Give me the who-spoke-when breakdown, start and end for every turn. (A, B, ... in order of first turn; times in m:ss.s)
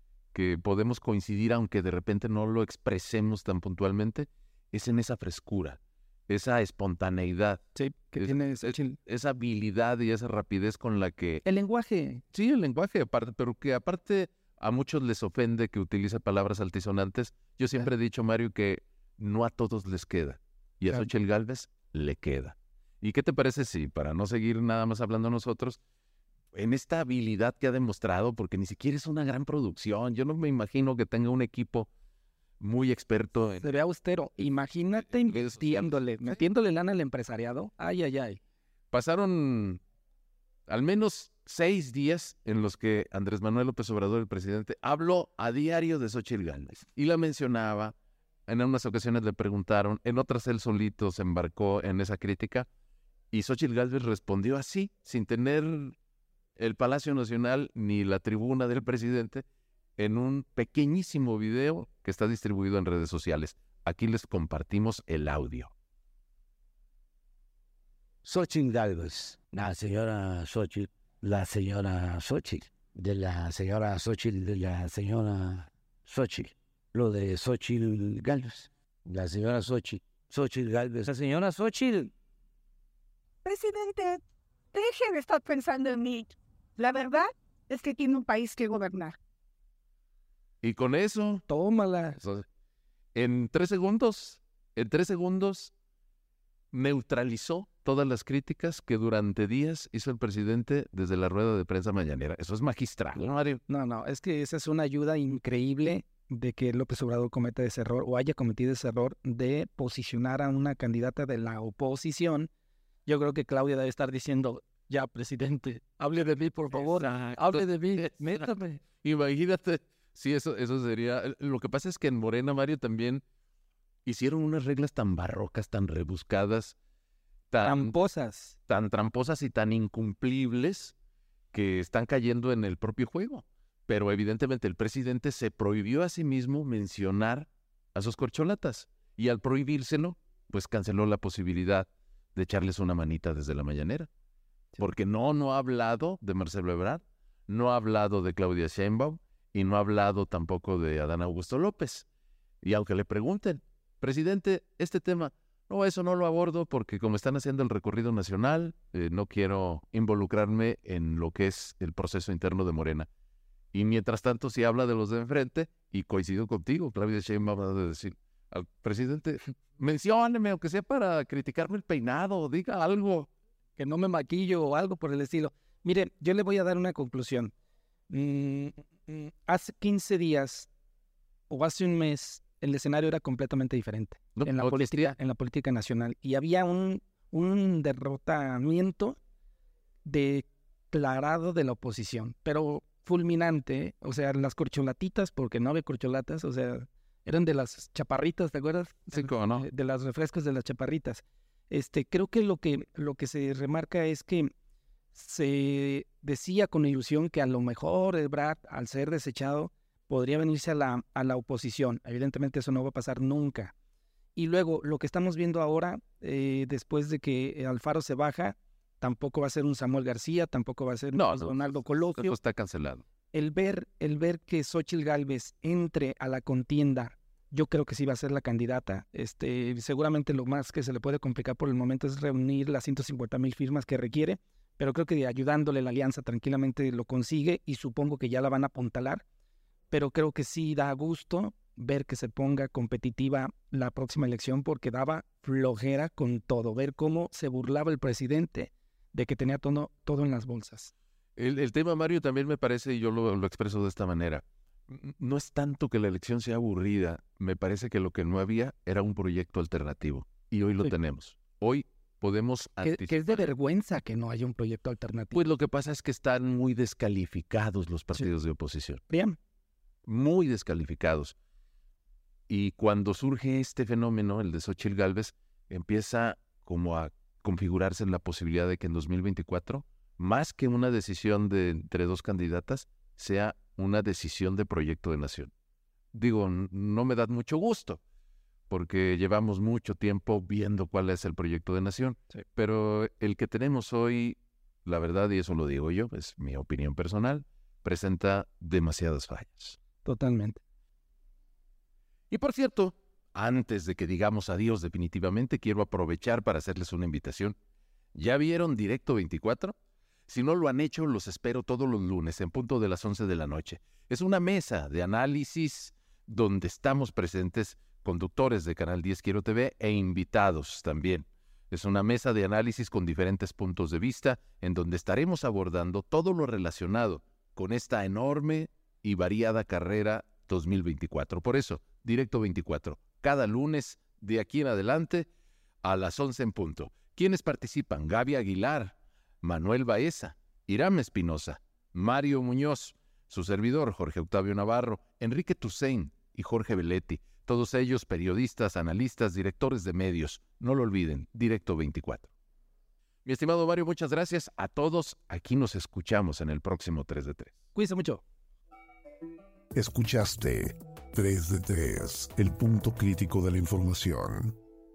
0:00.3-0:07.6 A
0:07.8-0:09.0 B
0:08.2-0:11.4 A
0:11.4-0:12.2 B
0:12.3-0:25.8 A
0:26.5-0:31.9 A
0:32.6-0:33.6 A
0:33.6-0:38.4 B
0:35.3-0:36.0 A
0:38.9-0:39.8 A
0:40.7-0:47.9 A
0:48.5-0:52.7 A
0:53.3-0:56.0 A
0:56.6-0:59.4 A
1:00.0-1:05.7 A
1:08.2-1:22.1 C
1:23.4-1:24.2 D
1:24.7-1:29.2 D
1:30.6-1:31.4 A
1:31.5-1:32.2 B
1:32.2-1:32.5 A
1:33.1-1:35.7 A
1:36.7-1:43.6 A
1:43.7-1:52.5 B
1:53.1-1:58.8 B
1:56.7-2:03.2 A
2:04.0-2:06.8 A
2:07.5-2:07.9 A
2:07.6-2:08.6 B
2:08.7-2:11.0 A
2:11.5-2:24.1 A
2:24.8-2:32.1 A
2:32.6-2:43.1 A
2:43.7-2:53.3 A
2:53.8-2:57.5 B
2:58.1-3:00.7 B
3:01.5-3:09.2 B
3:04.4-3:05.1 A
3:10.0-3:24.5 B
3:19.1-3:19.6 A
3:25.1-3:33.7 B
3:34.4-3:42.4 B
3:41.1-3:43.0 A
3:43.3-3:59.2 B
3:59.9-4:10.9 B
4:11.4-4:23.4 A
4:22.8-4:25.4 B
4:25.3-4:29.0 A
4:29.1-4:29.4 B
4:30.0-4:31.4 A
4:32.5-4:45.5 A
4:46.1-4:48.0 A
4:48.7-4:59.8 A
5:00.0-5:00.6 B
5:02.3-5:07.6 A
5:08.1-5:09.8 A
5:10.3-5:35.3 A
5:35.8-5:52.3 A
5:53.2-5:57.6 A
5:57.8-5:58.2 B
5:59.8-6:04.6 E